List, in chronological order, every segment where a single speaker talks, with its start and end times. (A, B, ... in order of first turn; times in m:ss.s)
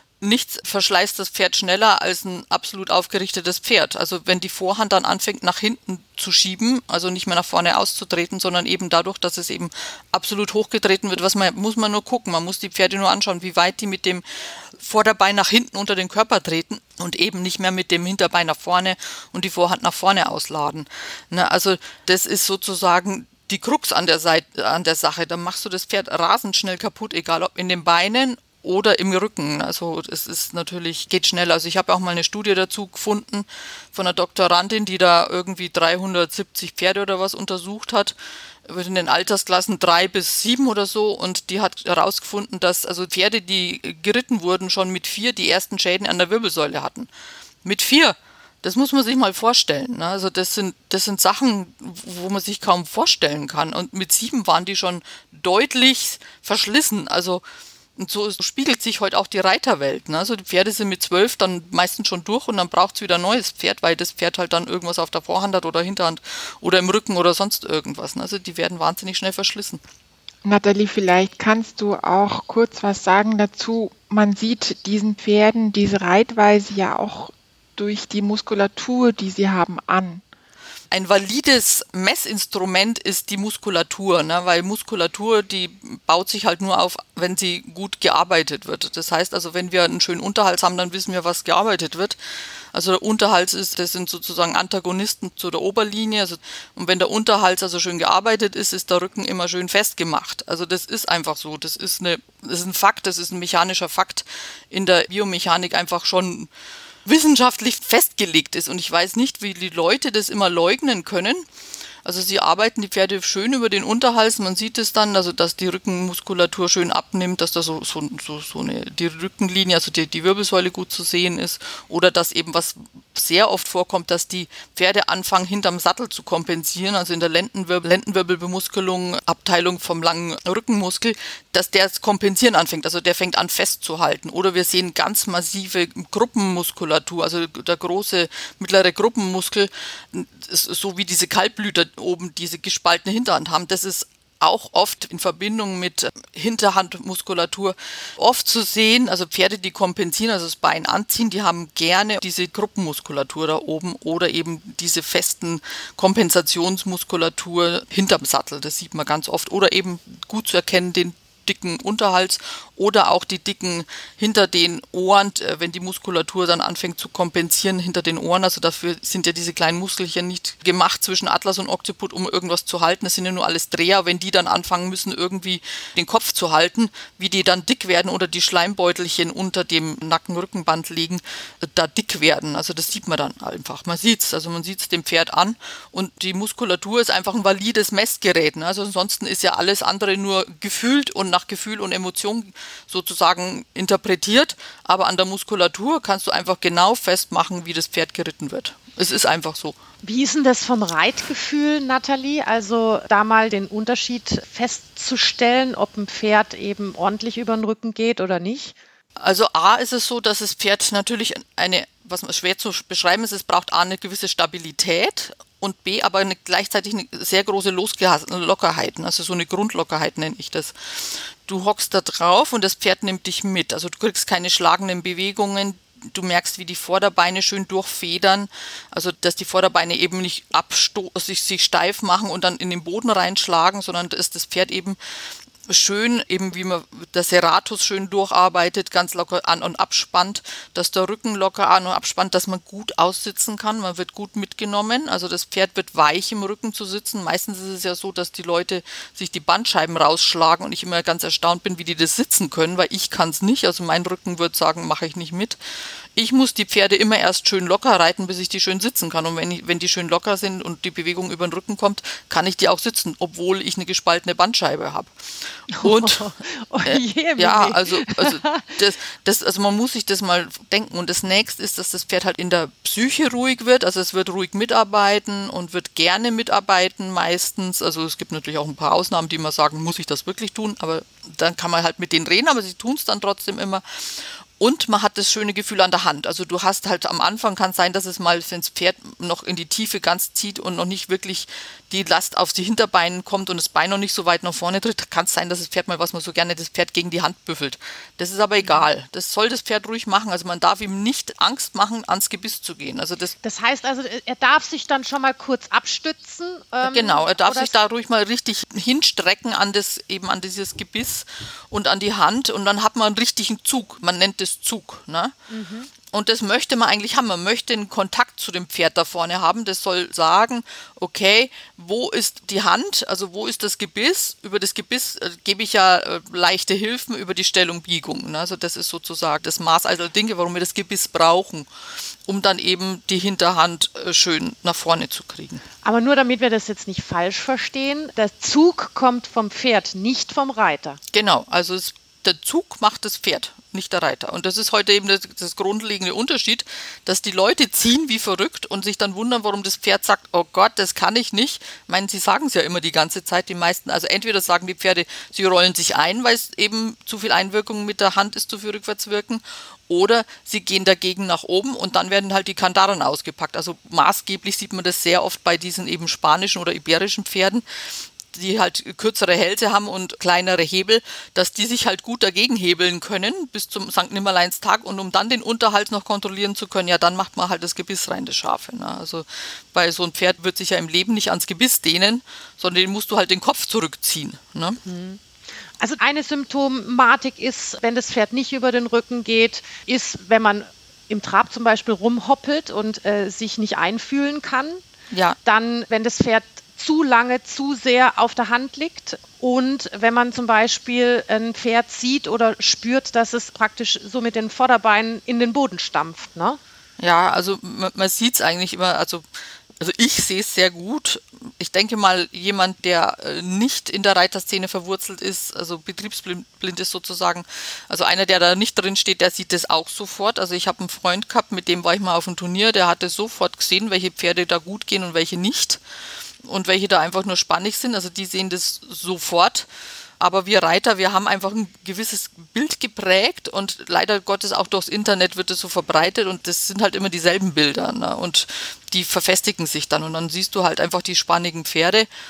0:00.2-0:38.1 A
0:38.6-0:47.1 A
0:47.6-0:57.4 A
0:58.0-1:09.8 A
1:10.4-1:20.2 B
1:20.9-1:32.2 A
1:32.7-1:46.5 A
1:47.0-1:51.4 A
1:52.0-3:19.8 A
3:20.0-3:28.8 C
3:29.2-4:15.6 A
4:16.1-4:25.1 A
4:25.7-4:28.8 C
4:25.7-4:26.3 A
4:26.8-5:03.3 A
4:58.6-4:58.9 C
5:03.4-5:07.7 C
5:06.8-5:15.3 A
5:15.5-5:15.9 C
5:16.1-5:31.7 A
5:32.2-5:35.6 A
5:35.8-5:41.0 C
5:41.1-6:24.8 A
6:24.8-6:25.2 C
6:25.8-6:34.8 C
6:35.1-6:35.4 A
6:35.4-6:46.6 C
6:47.0-6:49.2 A
6:49.8-7:05.8 A
7:06.4-7:09.7 A
7:10.2-7:22.1 A